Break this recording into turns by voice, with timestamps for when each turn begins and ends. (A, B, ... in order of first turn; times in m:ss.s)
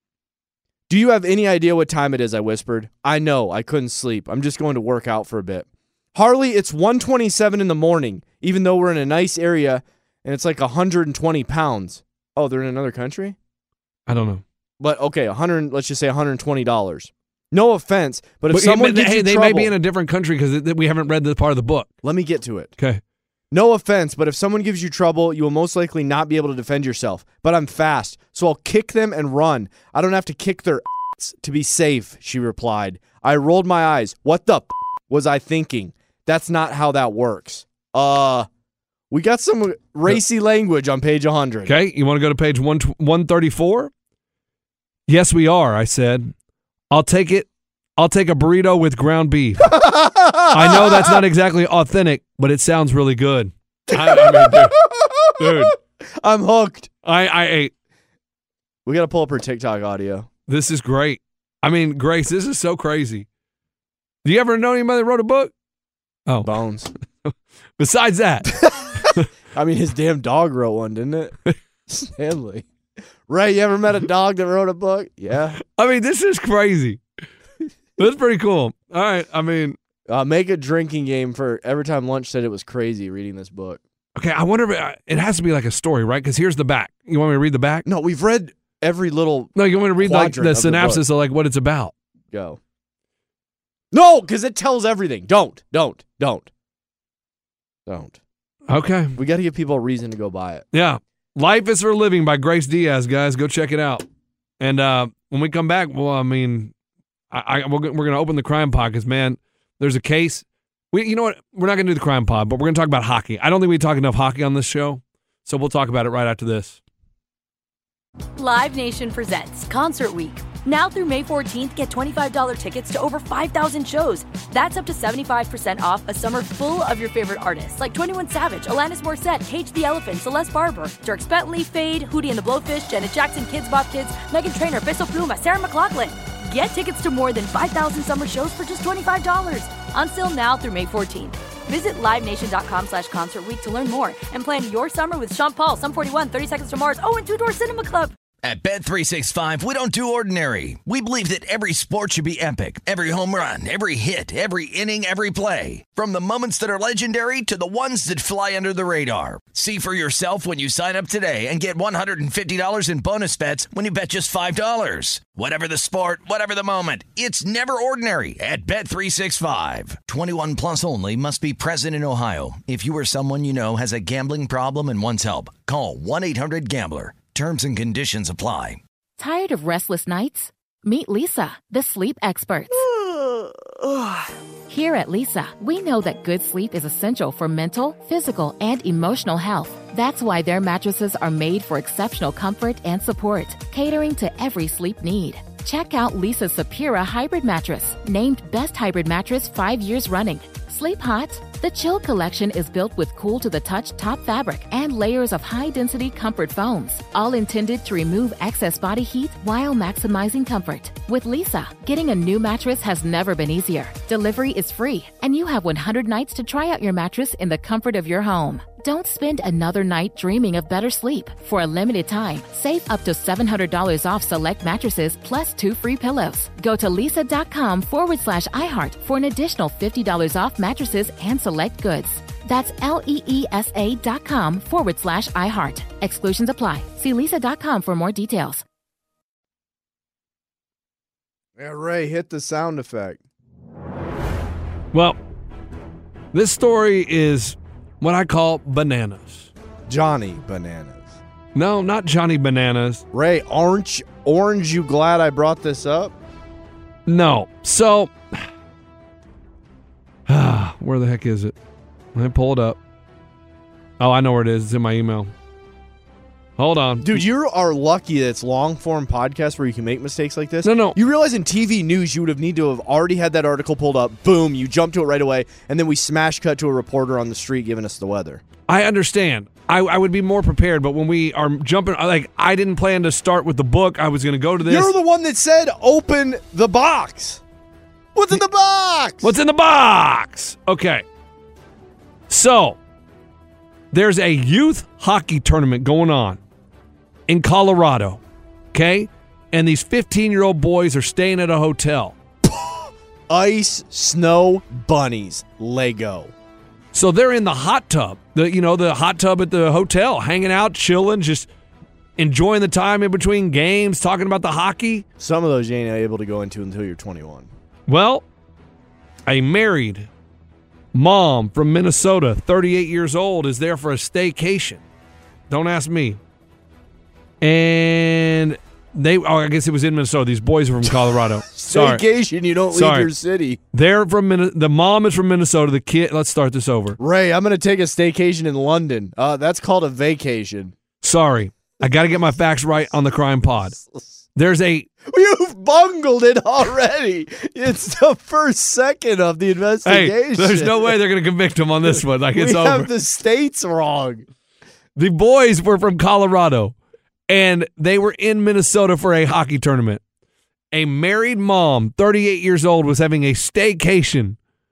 0:00.9-0:13.4 A
0:14.1-0:14.4 B
0:14.8-0:19.7 A
0:18.5-0:21.9 B
0:22.0-0:22.7 A
0:23.5-0:38.5 A
0:39.1-0:41.7 A
0:41.6-0:43.9 B
0:45.1-0:46.3 B
0:46.9-0:49.8 B
0:49.6-0:51.2 A
0:50.5-0:54.8 B
0:53.9-0:56.9 A
0:55.4-0:55.7 B
0:57.0-0:57.7 B
0:58.8-1:00.3 A
1:00.5-1:03.3 B
1:04.2-1:05.5 B
1:06.3-1:06.5 B
1:06.4-1:06.9 A
1:07.3-1:09.2 B
1:08.5-1:11.4 A
1:11.9-1:12.6 A
1:13.3-1:15.6 A
1:15.6-1:17.0 B
1:18.0-1:19.8 B
1:20.1-1:23.8 A
1:24.2-1:27.8 B
1:27.8-1:31.0 A
1:29.6-1:31.9 B
1:32.3-1:32.6 A
1:33.9-1:36.5 A
1:37.9-1:38.2 A
1:38.7-1:39.2 B
1:39.1-1:40.6 A
1:40.7-1:44.0 B
1:44.6-1:46.7 B
1:47.3-1:56.8 B
1:58.4-2:28.1 C
2:28.4-2:58.8 D
2:59.2-3:02.9 E
3:04.7-3:58.6 E
4:01.6-4:03.2 A
4:06.3-4:09.5 B
4:09.9-4:11.2 A
4:11.5-4:13.0 B
4:13.1-4:16.1 A
4:17.1-4:18.1 B
4:20.3-4:21.5 B
4:22.1-4:22.8 B
4:24.0-4:25.3 B
4:26.6-4:27.2 B
4:27.0-4:38.4 A
4:30.6-4:31.0 B
4:38.7-4:44.9 B
4:44.6-4:47.4 A
4:48.1-4:49.3 A
4:49.2-4:51.0 B
4:52.3-4:52.8 B
4:53.9-4:56.4 B
4:57.3-4:58.2 B
4:58.7-5:02.2 B
5:02.5-5:06.3 A
5:06.9-5:11.5 B
5:12.2-5:15.0 B
5:15.2-5:17.5 A
5:17.9-5:18.2 B
5:19.3-5:20.1 B
5:20.9-5:24.8 B
5:25.5-5:26.2 B
5:27.4-5:32.0 B
5:31.5-5:33.6 A
5:32.7-5:33.1 B
5:33.7-5:37.0 B
5:37.0-5:40.7 A
5:41.0-5:43.8 B
5:44.3-5:44.9 B
5:45.1-5:51.0 A
5:49.8-5:52.9 B
5:52.3-5:54.2 A
5:55.0-5:56.7 B
5:57.3-6:00.0 B
6:00.7-6:04.4 B